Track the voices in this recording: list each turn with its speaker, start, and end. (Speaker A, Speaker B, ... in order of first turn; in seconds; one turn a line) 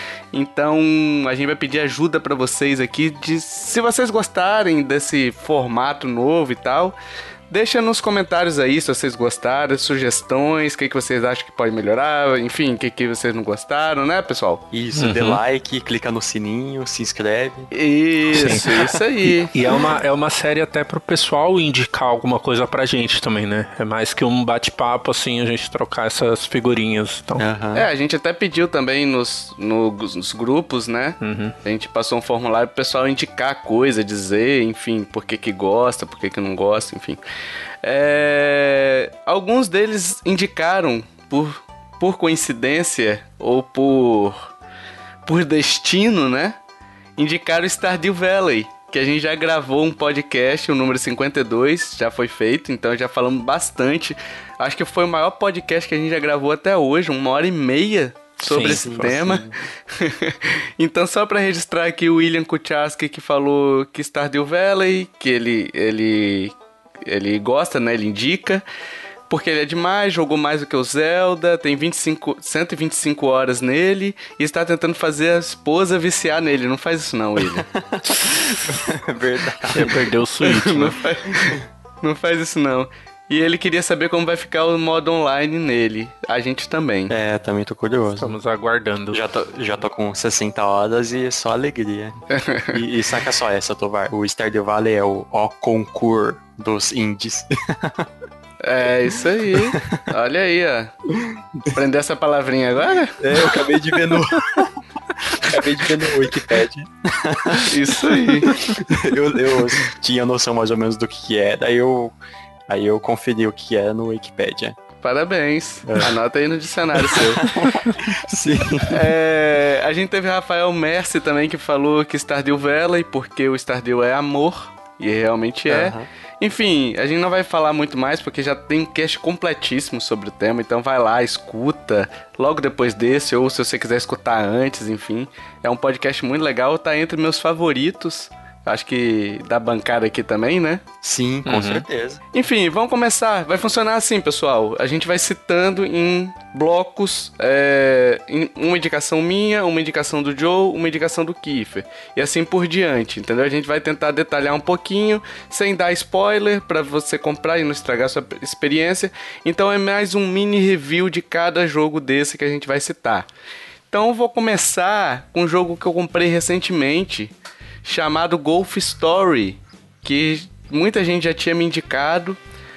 Speaker A: 0.3-7.0
Speaker A: 7.5-14.6
Speaker B: 14.7-17.7
Speaker C: 14.9-15.4
Speaker A: 17.7-19.5
Speaker B: 18.3-19.0
Speaker C: 18.3-18.7
Speaker C: 19.5-27.4
Speaker B: 27.4-27.9
Speaker A: 27.7-37.2
Speaker C: 31.2-31.5
Speaker A: 37.8-44.4
Speaker A: 45.2-46.6
Speaker A: 47.2-68.6
Speaker C: 58.4-59.1
Speaker B: 58.5-59.5
Speaker A: 69.3-77.7
Speaker B: 77.4-80.0
Speaker C: 79.7-81.0
Speaker A: 80.4-87.1
Speaker B: 87.1-88.3
Speaker C: 88.2-89.2
Speaker B: 89.1-92.2
Speaker A: 92.3-92.8
Speaker B: 92.7-98.1
Speaker A: 98.6-100.9
Speaker B: 99.5-100.0
Speaker B: 101.2-101.7
Speaker A: 101.7-104.1
Speaker B: 103.2-112.1
Speaker A: 105.3-106.2
Speaker A: 107.6-108.6
Speaker B: 112.7-114.8
Speaker A: 115.0-117.5
Speaker B: 115.9-116.2
Speaker B: 116.9-119.1
Speaker A: 118.8-140.8
Speaker B: 125.7-126.1
Speaker B: 141.0-142.2
Speaker C: 141.4-141.8
Speaker A: 142.3-163.3
Speaker A: 163.9-167.3
Speaker A: 167.8-172.4